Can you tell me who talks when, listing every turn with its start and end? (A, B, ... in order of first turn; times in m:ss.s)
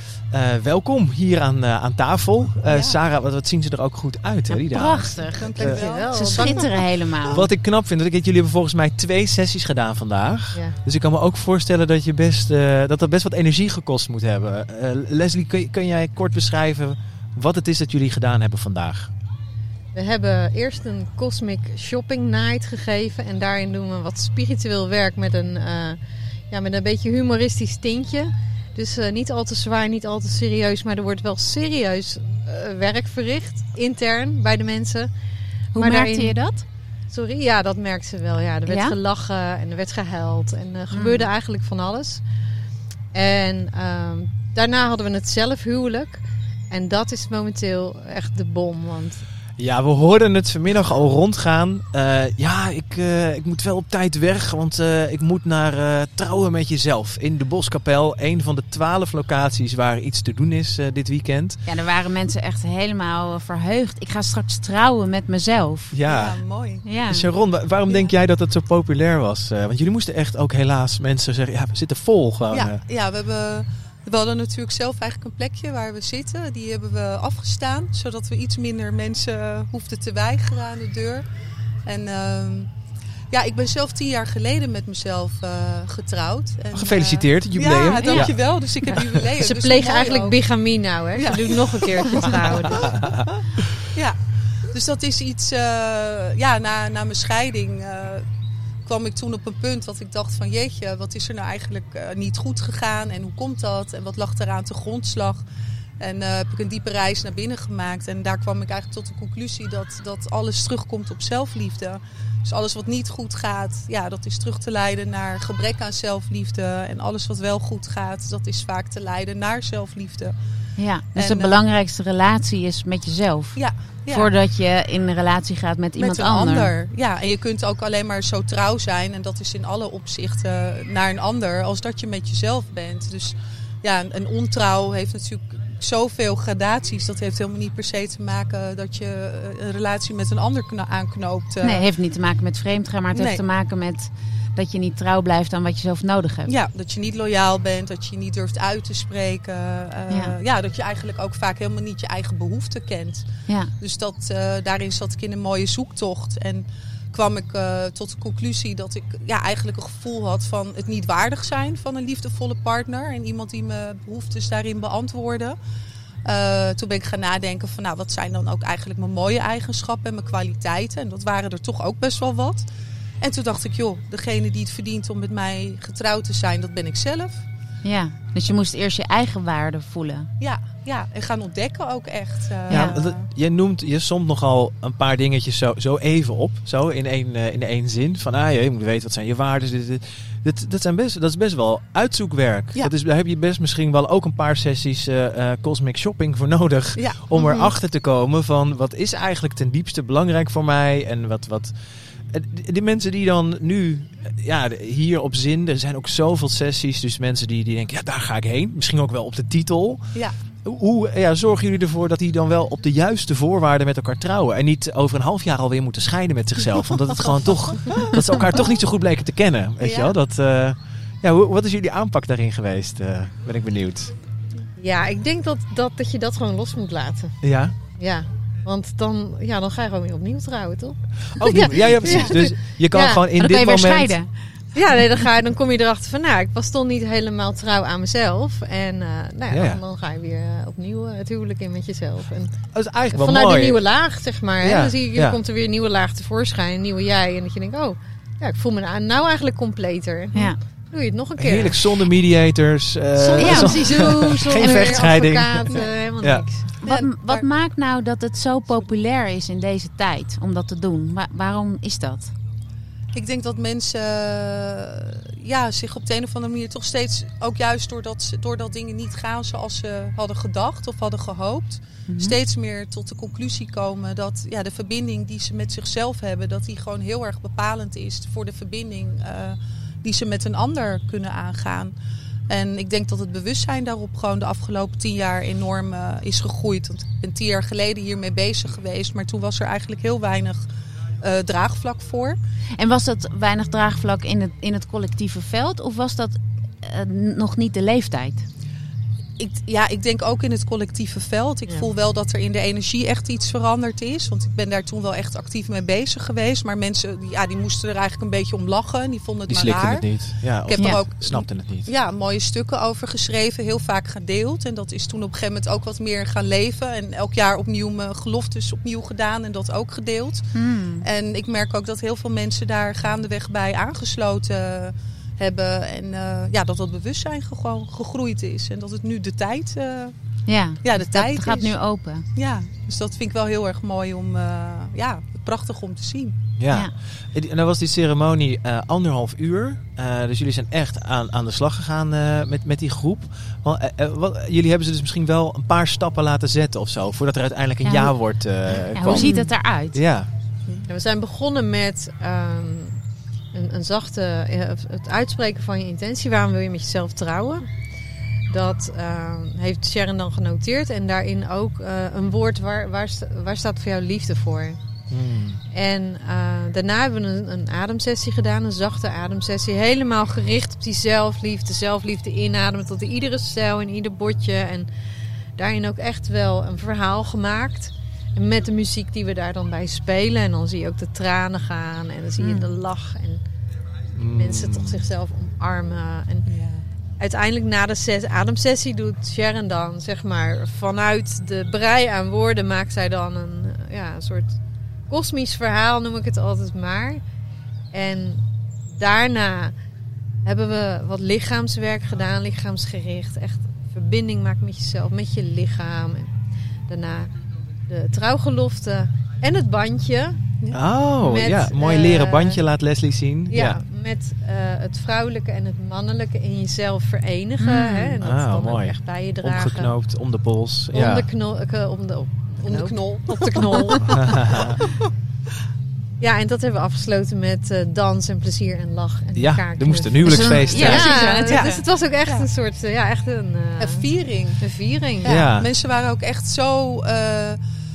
0:00.3-0:05.8 A
0:02.7-0:03.0 B
0:04.5-0:07.5 C
0:05.3-0:06.5 B
0:05.6-0:06.7 D
0:07.2-0:19.1 A
0:19.9-0:26.0 D
0:26.5-0:35.1 D
0:35.7-0:36.4 D
0:35.7-0:36.6 C
0:37.1-0:42.2 D
0:38.7-0:39.0 C
0:40.9-0:41.3 C
0:43.1-0:49.2 D
0:49.6-1:01.6 A
1:01.6-1:05.9 C
1:05.9-1:06.4 A
1:06.0-1:06.8 B
1:06.8-1:07.3 C
1:07.1-1:12.8 A
1:12.5-1:21.2 B
1:21.8-1:22.7 B
1:23.3-1:30.4 B
1:26.7-1:29.2 A
1:29.4-1:33.0 D
1:31.1-1:32.7 B
1:32.7-1:33.1 A
1:33.9-1:38.2 B
1:38.8-1:45.4 B
1:46.0-2:00.3 B
2:00.8-2:06.7 C
2:01.1-2:01.6 B
2:03.5-2:04.3 B
2:06.0-2:21.8 B
2:21.6-2:26.5 C
2:23.1-2:23.4 B
2:26.4-2:33.3 B
2:30.1-2:30.4 C
2:33.5-2:33.7 C
2:33.8-2:45.6 B
2:46.2-2:52.6 B
2:53.2-2:57.4 B
2:57.8-3:00.3 C
3:00.4-3:03.2 B
3:02.7-3:03.0 C
3:02.7-3:21.7 A
3:17.0-3:17.6 B
3:22.3-3:44.1 A
3:39.8-3:40.1 B
3:44.8-3:47.3 D
3:47.4-3:47.7 A
3:48.0-3:53.2 D
3:51.3-3:54.2 A
3:53.4-3:54.3 C
3:54.7-4:02.5 D
3:59.5-3:59.8 A
4:02.7-4:03.8 A
4:03.1-4:12.0 D
4:04.6-4:05.4 A
4:11.4-4:16.4 A
4:13.2-4:16.7 D
4:13.4-4:14.9 C
4:14.6-4:15.0 B
4:16.8-4:22.3 C
4:16.8-4:17.4 B
4:23.1-4:41.9 B
4:32.1-4:32.4 C
4:42.5-4:50.6 B
4:51.2-4:52.4 B
4:52.8-4:58.4 C
4:59.4-5:30.1 B
5:09.5-5:11.9 A
5:10.8-5:11.0 C
5:20.5-5:21.0 C
5:30.5-5:32.3 C
5:30.8-5:31.8 B
5:32.3-5:36.4 B
5:36.6-5:50.3 A
5:47.8-5:50.0 C
5:49.1-5:49.5 D
5:50.9-5:53.0 D
5:53.5-5:57.7 D
5:58.5-6:04.8 D
6:05.1-6:05.6 A
6:05.7-6:14.9 D
6:15.6-6:23.4 D
6:22.4-6:22.7 C
6:24.2-6:25.0 A
6:24.3-6:26.5 D
6:26.4-6:26.8 B
6:27.2-6:34.6 D
6:35.1-6:37.2 D
6:37.9-6:38.4 D
6:39.0-6:39.7 D
6:40.4-6:46.3 D
6:46.9-6:47.3 D
6:47.9-6:50.4 D
6:50.7-6:53.8 A
6:51.2-6:52.6 D
6:53.5-6:59.9 D
6:57.6-6:58.2 C
6:58.2-7:01.3 A
7:00.9-7:04.6 D
7:02.6-7:04.8 B
7:04.3-7:04.7 A
7:06.2-7:14.1 D
7:09.3-7:11.1 A
7:10.2-7:11.8 C
7:11.0-7:12.5 B
7:13.8-7:14.6 B
7:14.6-7:15.5 D
7:15.2-7:17.6 B
7:15.2-7:15.7 A